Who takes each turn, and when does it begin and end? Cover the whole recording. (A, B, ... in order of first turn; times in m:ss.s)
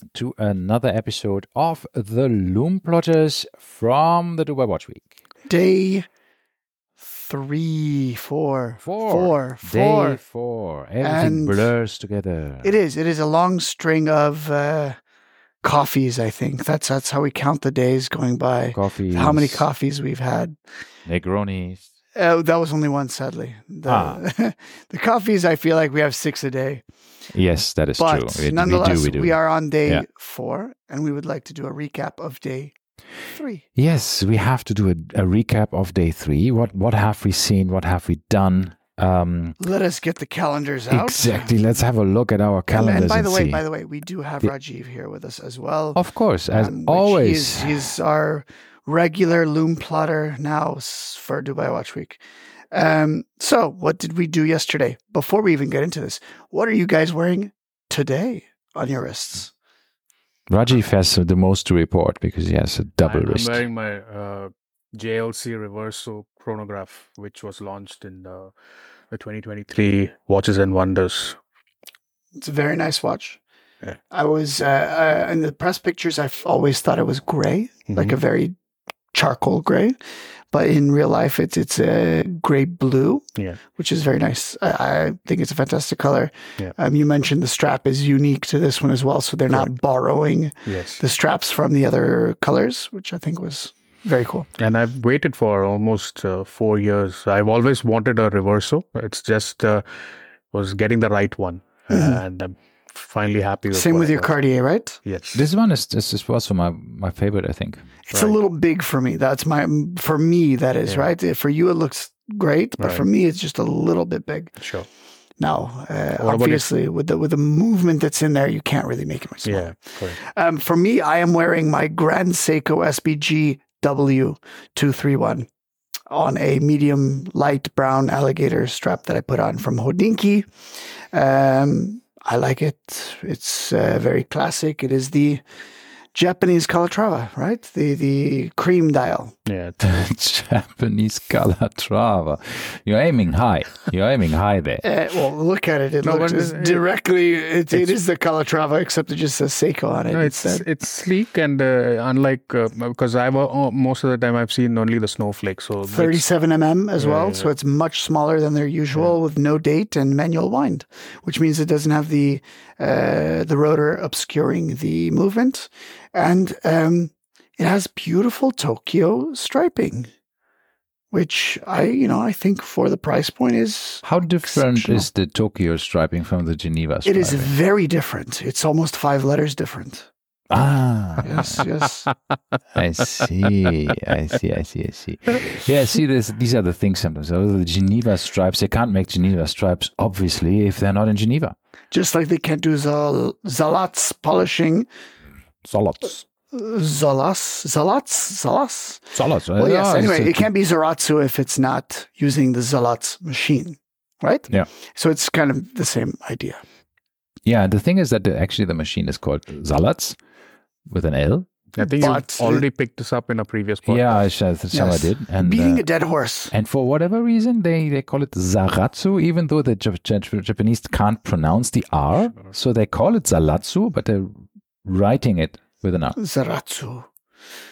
0:00.1-0:05.1 A
0:05.5-0:06.1 B
0:07.0-0:10.2 B
0:08.8-0:12.7 A
0:11.0-0:11.7 B
0:12.6-0:15.0 B
0:15.6-0:20.6 B
0:18.7-0:19.7 A
0:21.1-0:21.8 A
0:22.2-0:26.8 B
0:23.9-0:24.2 A
0:27.3-0:30.1 A
0:28.0-0:32.7 B
0:33.3-0:33.6 B
0:33.8-0:39.6 A
0:39.6-0:41.5 B
0:40.9-0:43.6 A
0:42.7-0:59.5 B
0:46.0-0:47.8 A
1:00.5-1:03.6 A
1:03.0-1:08.5 C
1:09.1-1:11.4 C
1:12.4-1:13.4 B
1:14.1-1:18.6 B
1:17.9-1:18.2 C
1:19.1-1:20.0 B
1:20.5-1:23.2 B
1:23.8-1:34.5 B
1:30.7-1:31.0 C
1:34.6-1:44.4 C
1:41.9-1:42.2 B
1:43.7-1:45.0 B
1:45.0-1:45.5 C
1:45.4-1:47.8 A
1:48.1-1:54.6 B
1:48.1-1:48.4 C
1:52.8-1:53.1 C
1:54.6-1:54.9 C
1:55.4-2:05.5 B
1:56.2-1:56.7 C
1:59.4-2:00.2 C
2:06.1-2:10.5 B
2:11.1-2:15.4 B
2:16.1-2:19.4 B
2:19.5-2:19.9 C
2:19.8-2:24.8 A
2:24.8-2:30.7 B
2:26.0-2:26.9 C
2:30.1-2:36.2 C
2:35.9-2:50.1 B
2:37.0-2:37.5 C
2:51.1-2:55.1 B
2:54.0-2:57.5 A
2:57.0-3:00.1 B
3:00.5-3:01.6 A
3:01.2-3:02.1 B
3:02.7-3:11.6 A
3:11.9-3:14.9 B
3:15.6-3:16.2 A
3:16.5-3:26.6 B
3:19.1-3:20.5 A
3:27.5-3:30.2 A
3:30.9-3:31.5 A
3:31.8-3:34.3 C
3:31.8-3:32.7 B
3:33.9-3:35.9 A
3:34.7-3:36.5 B
3:36.5-3:46.2 A
3:46.2-3:47.1 B